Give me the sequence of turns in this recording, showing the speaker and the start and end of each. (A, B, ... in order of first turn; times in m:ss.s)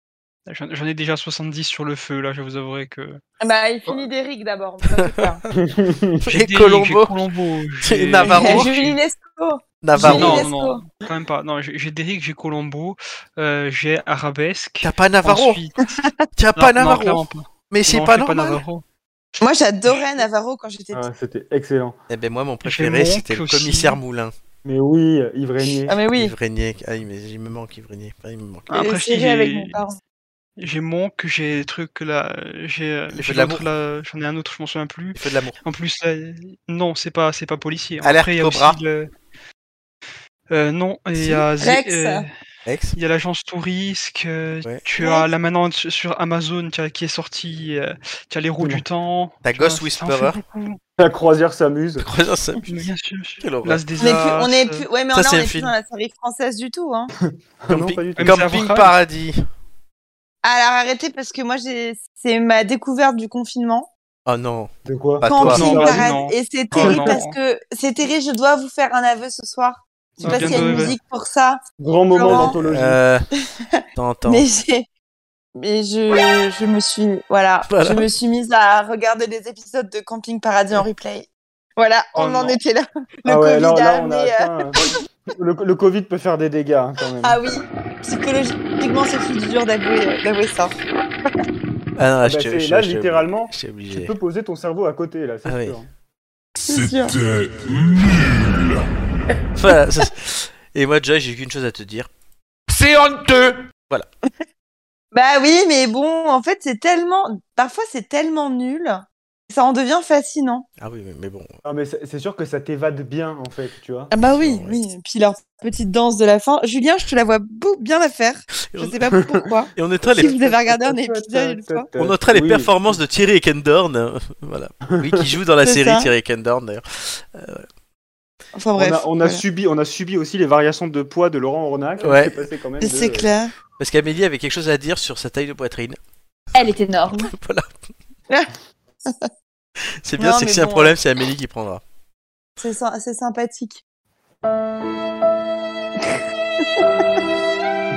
0:00.5-0:03.2 A
0:03.4-0:05.4 B
0:05.0-0:05.3 C
0:05.6-0:06.3 D
0:06.2-0:07.2 C
0:06.3-0:09.0 A
0:07.8-0:08.7 C
0:08.2-0:10.8 B
0:09.8-0:10.5 C
0:10.0-0:15.8 A
0:14.8-0:15.6 C
0:16.4-0:18.6 C
0:16.6-0:18.8 A
0:19.4-0:21.0 B
0:20.9-0:22.0 D
0:22.1-0:24.3 C
0:22.6-0:24.0 A
0:24.6-0:26.0 D
0:25.9-0:26.3 B
0:26.1-0:28.7 C
0:28.7-0:30.0 B
0:28.7-0:29.8 A
0:30.6-0:39.1 A
0:33.1-0:33.7 C
0:35.2-0:35.6 C
0:38.0-0:38.8 C
0:40.5-0:42.3 A
0:41.1-0:41.5 C
0:41.6-0:42.3 B
0:42.7-0:43.0 C
0:43.0-0:50.8 A
0:45.0-0:45.3 B
0:48.6-0:48.8 D
0:49.4-0:50.4 C
0:51.0-0:52.1 D
0:52.0-0:52.9 C
0:52.7-0:54.9 A
0:53.4-0:53.8 C
0:54.0-0:57.1 B
0:55.1-0:55.7 C
0:57.2-0:58.5 D
0:57.7-0:59.4 C
0:58.2-0:58.9 A
1:00.4-1:03.9 B
1:04.3-1:05.9 C
1:04.9-1:06.2 D
1:05.2-1:11.6 B
1:05.5-1:07.4 A
1:10.2-1:11.0 D
1:10.2-1:11.0 A
1:11.8-1:13.0 D
1:12.1-1:12.6 B
1:12.3-1:13.3 C
1:13.6-1:14.9 B
1:14.0-1:14.5 C
1:15.6-1:25.0 B
1:17.7-1:18.1 C
1:22.2-1:22.6 A
1:23.3-1:27.4 D
1:27.2-1:30.8 B
1:32.0-1:34.1 C
1:32.2-1:35.9 D
1:35.5-1:35.8 C
1:36.7-1:37.2 B
1:36.7-1:38.8 E
1:37.6-1:37.9 D
1:39.6-1:42.1 C
1:42.7-1:43.7 E
1:45.1-1:50.6 B
1:50.8-1:51.6 C
1:51.6-1:54.1 D
1:54.1-2:01.9 B
1:54.2-1:54.8 C
1:58.7-1:59.0 C
1:59.8-2:00.4 C
2:00.0-2:03.0 D
2:02.0-2:07.7 C
2:05.6-2:06.1 B
2:08.6-2:09.4 B
2:08.8-2:13.3 D
2:12.0-2:12.4 C
2:12.8-2:13.5 B
2:13.8-2:16.0 C
2:16.5-2:17.3 B
2:17.1-2:17.8 C
2:20.0-2:21.8 C
2:20.2-2:20.9 B
2:22.6-2:23.8 B